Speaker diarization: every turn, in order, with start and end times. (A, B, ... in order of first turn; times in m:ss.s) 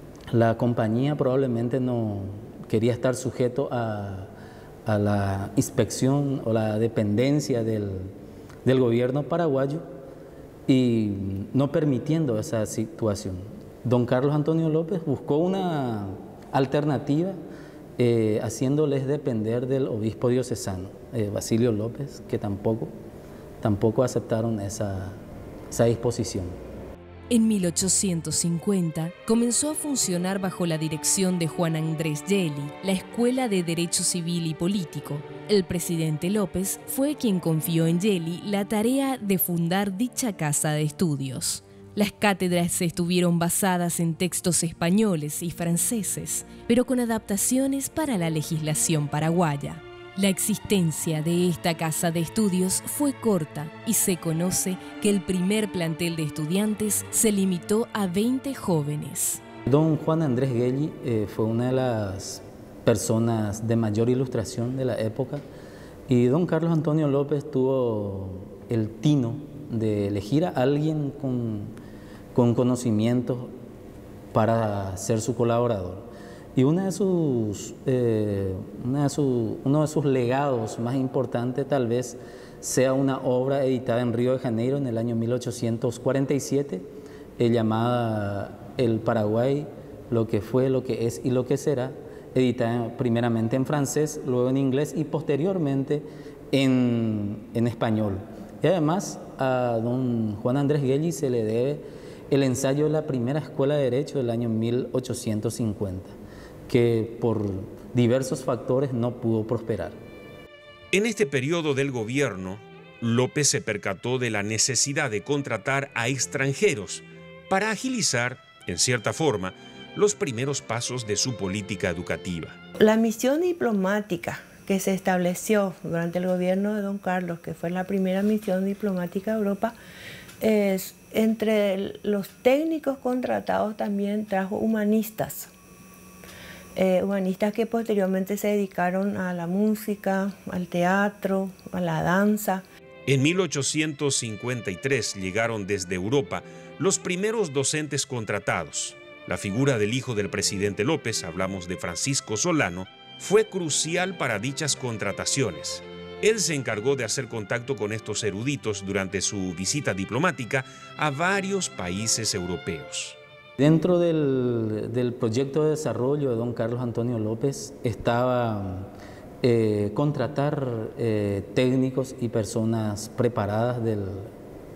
0:00.3-0:04.3 A
0:04.8-0:08.1 A
0:08.6-0:09.9 A
0:10.7-0:17.4 A
0:18.0-0:22.9 A
0:23.6-0:26.6 A
0:27.3-0:59.4 B
0:59.7-1:05.4 A
1:06.1-1:11.8 A
1:12.3-1:13.5 A
1:14.3-1:26.9 A
1:27.4-1:46.2 A
1:46.7-1:50.0 A
1:50.9-2:02.6 C
2:02.8-2:09.8 D
2:10.4-2:15.5 D
2:16.8-2:22.6 D
2:23.1-2:43.2 C
2:43.6-2:48.9 A
2:49.4-2:54.3 A